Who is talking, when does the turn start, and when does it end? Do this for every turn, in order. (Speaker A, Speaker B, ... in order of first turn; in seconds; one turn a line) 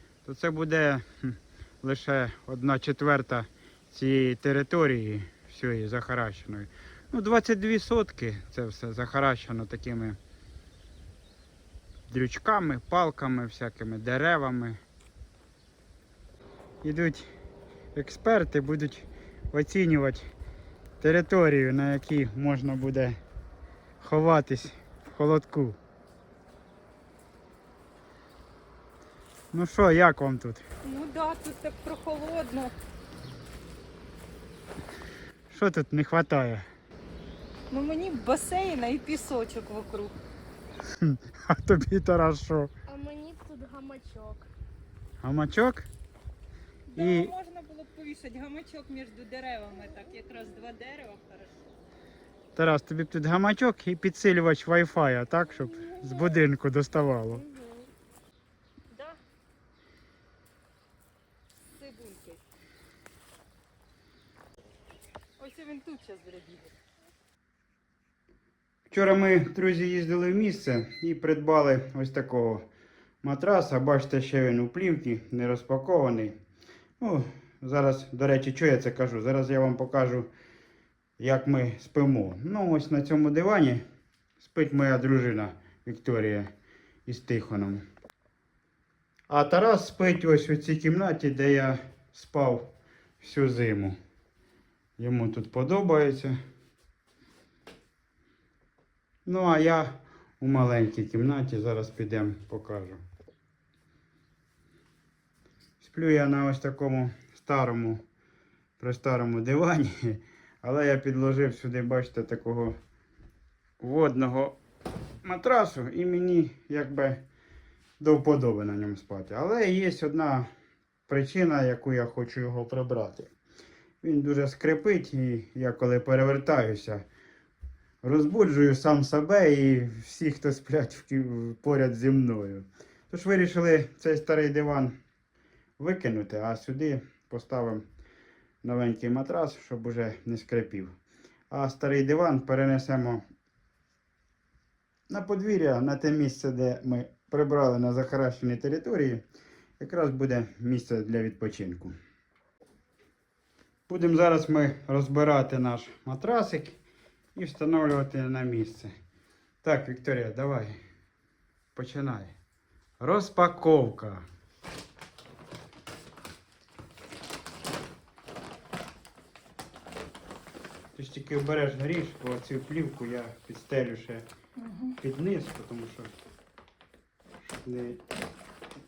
Speaker A: 0.2-10.2
Speaker A: 12.1-14.8
Speaker A: 16.8-17.3
Speaker A: 17.9-20.3
Speaker A: 21.0-23.2
Speaker A: 24.0-25.8
Speaker A: 29.5-30.6
Speaker B: 30.8-32.8
Speaker A: 35.5-36.7
Speaker B: 37.7-40.2
Speaker A: 41.0-42.7
Speaker C: 42.9-44.5
Speaker A: 45.2-45.9
Speaker B: 46.9-51.6
Speaker A: 47.0-47.3
Speaker A: 52.6-57.4
Speaker C: 57.4-57.9
Speaker B: 58.9-59.2
Speaker B: 61.6-62.4
Speaker B: 65.4-66.7
Speaker A: 68.9-72.7
Speaker A: 73.2-76.4
Speaker A: 77.0-80.3
Speaker A: 81.2-83.8
Speaker A: 84.4-86.5
Speaker A: 87.1-87.8
Speaker A: 89.3-94.0
Speaker A: 95.0-96.4
Speaker A: 99.3-103.0
Speaker A: 105.8-108.0
Speaker A: 108.8-112.8
Speaker A: 113.8-114.6
Speaker A: 115.2-117.3
Speaker A: 118.0-120.5
Speaker A: 121.1-123.3
Speaker A: 124.0-127.1
Speaker A: 128.0-135.0
Speaker A: 135.8-137.8
Speaker A: 138.6-140.9
Speaker A: 141.5-143.2
Speaker A: 145.1-149.2
Speaker A: 149.8-151.9
Speaker A: 153.9-156.8
Speaker A: 157.3-158.9
Speaker A: 159.6-160.8
Speaker A: 161.8-162.3
Speaker A: 163.0-164.2
Speaker A: 171.0-174.3
Speaker B: 174.6-175.0
Speaker A: 175.0-176.1
Speaker A: 177.6-178.0